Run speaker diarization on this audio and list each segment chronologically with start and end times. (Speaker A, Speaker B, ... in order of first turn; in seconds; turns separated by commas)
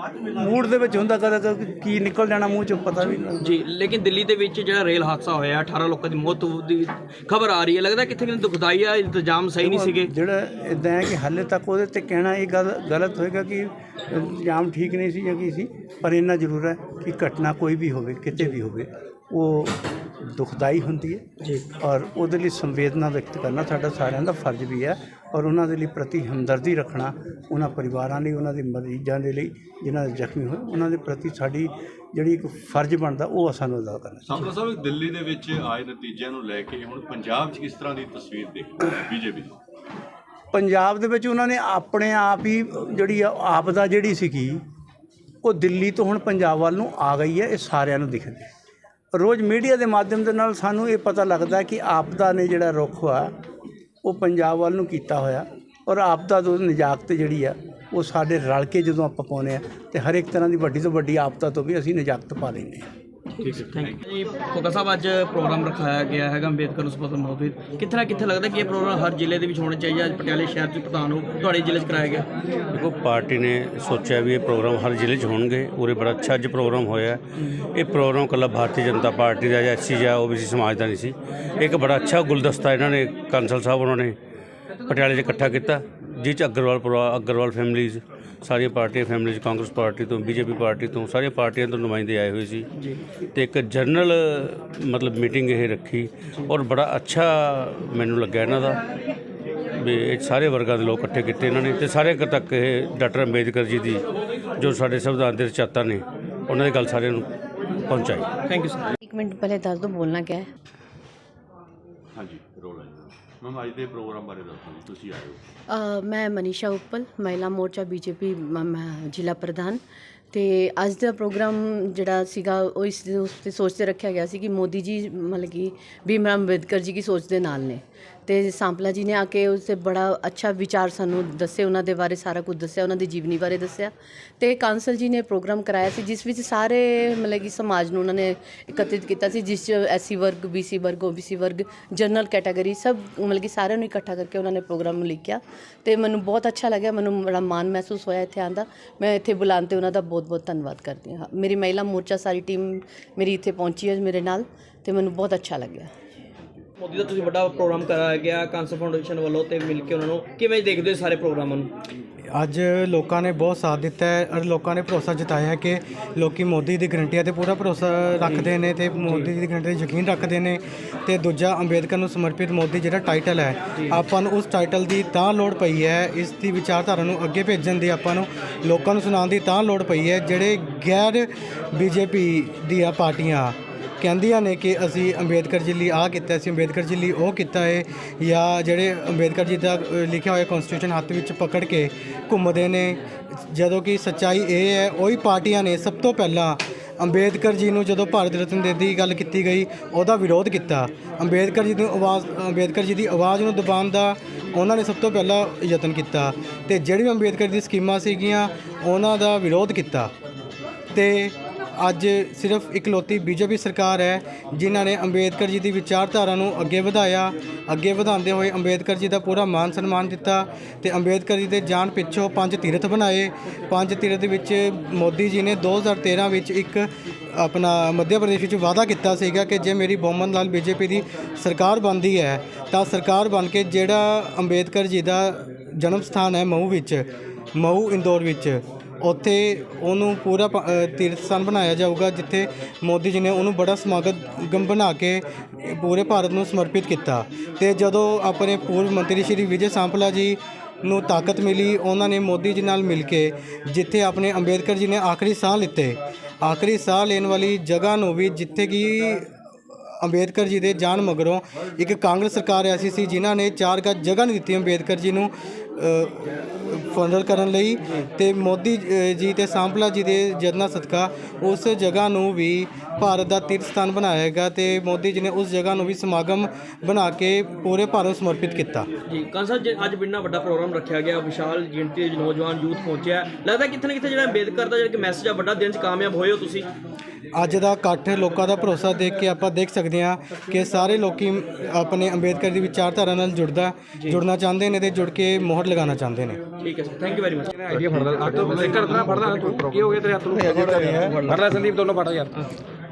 Speaker A: 0.3-3.5, Speaker B: 3.4-10.1, Speaker A: 9.7-21.2, Speaker A: 21.8-34.2, Speaker C: 34.2-39.6, Speaker A: 40.5-44.6, Speaker A: 45.4-48.5, Speaker A: 49.1-53.4, Speaker A: 54.0-62.9, Speaker B: 63.3-72.3, Speaker C: 63.4-63.9, Speaker D: 72.7-77.2, Speaker B: 77.4-77.6, Speaker D: 77.7-84.2, Speaker D: 84.9-92.7, Speaker B: 92.8-93.0, Speaker D: 93.3-98.8, Speaker D: 99.8-104.0, Speaker D: 104.6-107.3, Speaker D: 107.9-108.3, Speaker B: 108.5-108.8, Speaker E: 109.0-110.5, Speaker C: 112.2-115.4, Speaker E: 115.7-119.8, Speaker E: 120.3-155.9, Speaker B: 156.8-161.7, Speaker F: 162.3-210.1, Speaker B: 168.2-168.5, Speaker B: 169.0-169.3, Speaker B: 173.7-174.0, Speaker F: 210.9-259.3, Speaker F: 260.0-266.2, Speaker F: 266.7-278.9, Speaker B: 279.1-286.7, Speaker F: 287.4-296.4, Speaker B: 294.0-294.2, Speaker B: 296.6-298.5, Speaker G: 297.6-302.4, Speaker C: 297.8-299.8, Speaker B: 300.3-301.6